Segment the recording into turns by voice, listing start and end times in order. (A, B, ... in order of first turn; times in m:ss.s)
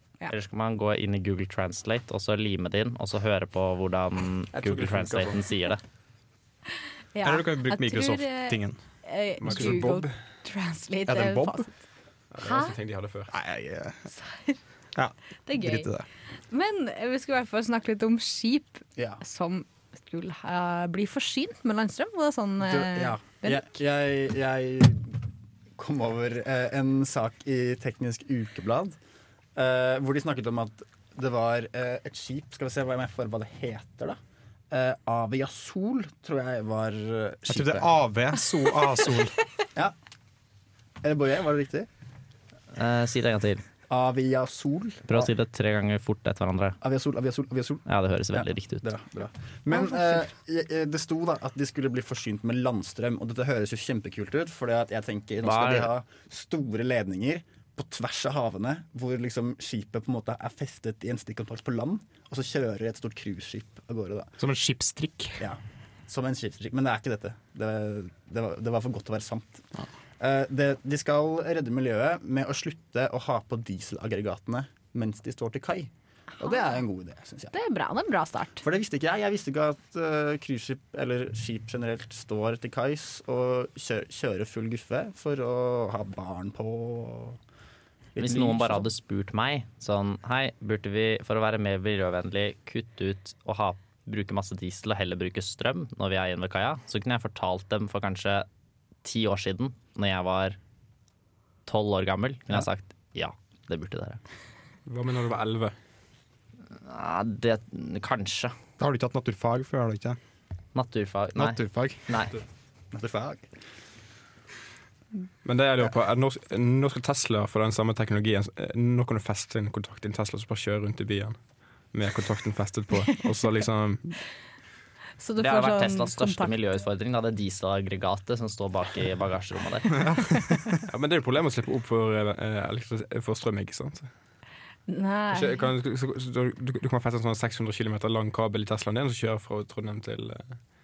0:00.3-0:05.8 A
0:04.9-0:05.3 B
0:07.1-0:11.8 C
0:07.2-0:08.8 D
0:09.4-0:10.1 B
0:11.1-0:11.7 D
0:12.3-0:13.3 B
0:12.4-0:12.8 C
0:13.3-0:14.0 D
0:14.1-0:14.6 C
0:15.0-0:16.1 D
0:15.5-0:15.9 C
0:16.5-0:23.7 C
0:22.6-0:25.2 E
0:25.8-0:29.0 E
0:29.6-0:34.2 E
0:34.7-0:37.9 E
0:37.5-0:39.4 D
0:41.0-0:41.9 E
0:42.7-0:43.6 A
0:43.9-0:45.3 E
0:45.1-0:46.8 A
0:46.8-1:04.4 E
0:47.9-0:48.9 A
0:49.7-0:50.0 C
0:55.4-0:55.9 A
1:04.4-1:05.4 D
1:05.4-1:09.7 E
1:10.2-1:17.5 E
1:16.4-1:16.8 C
1:17.5-1:18.6 C
1:18.6-1:27.4 E
1:28.2-1:28.9 E
1:28.2-1:38.5 A
1:39.0-1:40.6 A
1:41.7-1:44.2 A
1:44.9-1:45.7 B
1:46.7-1:48.5 A
1:48.8-1:50.2 D
1:50.8-1:52.4 A
1:51.4-1:52.0 D
1:52.9-1:53.5 E
1:55.4-2:01.4 B
2:01.9-2:04.2 B
2:05.2-2:06.5 C
2:05.4-2:10.1 A
2:10.8-2:14.1 B
2:14.9-2:15.7 C
2:15.3-2:20.6 B